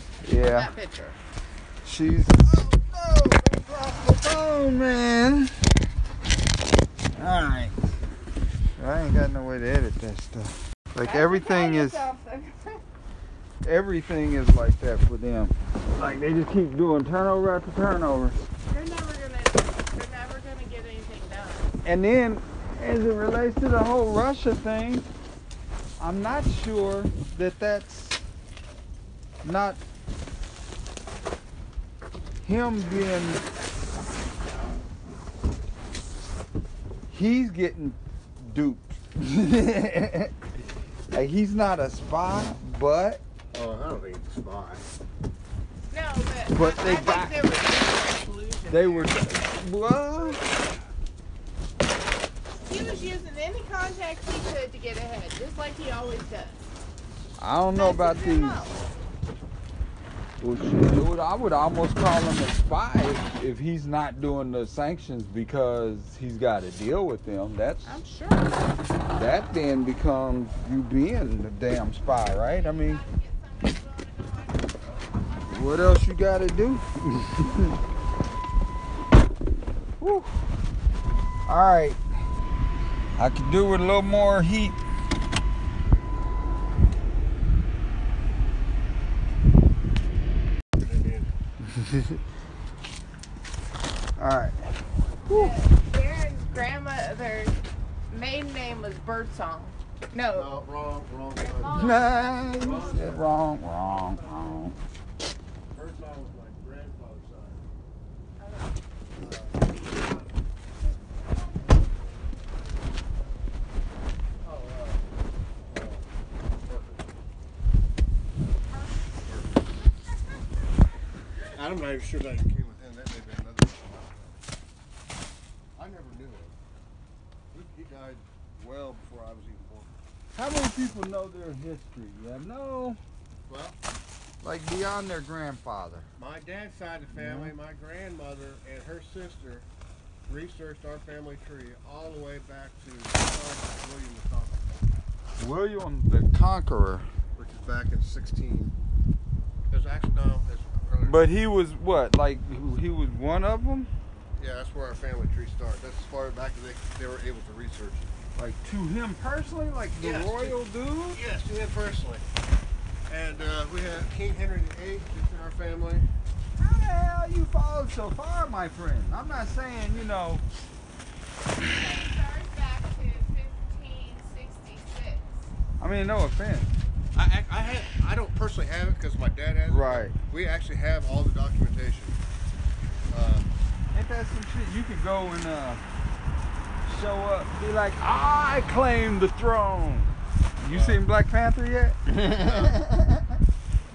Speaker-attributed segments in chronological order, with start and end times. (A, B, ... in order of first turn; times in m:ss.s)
0:00.2-0:00.7 A
0:00.4-0:01.2 B
0:01.8-0:05.5 A
0:07.2-0:07.8 A
0:08.8-0:12.1 A
0:11.0-0:12.8 B
0:13.6-0:18.4 A
0:18.7-0:21.7 B
0:21.8-0:25.1 A
0:26.0-0:28.2 A
0:29.4-0:29.8 A
0:32.4-0:33.4 A
0:37.1-0:40.3 A
0:41.1-0:43.2 A
0:43.5-0:44.9 C
0:45.9-0:49.2 B
0:46.5-0:47.4 A
0:48.7-0:50.4 A
0:52.6-0:56.6 B
0:57.4-0:58.8 A
0:57.7-0:58.8 B
1:00.4-1:07.9 A
1:07.8-1:08.5 B
1:09.1-1:13.0 A
1:12.4-1:16.0 B
1:15.5-1:17.7 A
1:20.0-1:20.3 A
1:21.5-1:22.0 A
1:23.2-1:24.8 A
1:30.8-1:31.3 C
1:31.6-1:32.2 A
1:34.2-1:35.6 A
1:35.3-1:37.6 B
1:38.1-1:40.5 B
1:40.3-1:44.6 C
1:41.4-1:43.2 B
1:41.7-1:44.8 A
1:45.7-1:47.6 C
1:48.4-1:48.7 B
1:49.2-1:50.3 C
1:54.4-1:55.0 C
1:55.7-1:57.1 C
1:59.2-1:59.6 C
2:01.6-2:04.4 C
2:05.8-2:06.6 C
2:07.5-2:09.9 C
2:10.3-2:13.0 A
2:13.5-2:13.8 C
2:14.4-2:16.1 A
2:16.2-2:19.7 C
2:17.1-2:17.6 A
2:20.3-2:24.8 C
2:25.4-2:27.1 A
2:27.4-2:28.7 C
2:29.7-2:31.2 C
2:31.0-2:33.9 A
2:34.4-2:38.1 C
2:38.4-2:41.2 A
2:40.0-2:40.6 C
2:41.1-2:42.2 C
2:43.1-2:46.1 C
2:46.6-2:50.4 A
2:51.7-2:55.5 B
2:55.8-2:56.8 A
2:57.2-3:02.2 C
2:59.7-3:00.2 A
3:03.1-3:03.5 C
3:03.9-3:05.8 A
3:06.8-3:13.4 A
3:10.7-3:11.0 C
3:12.3-3:12.8 C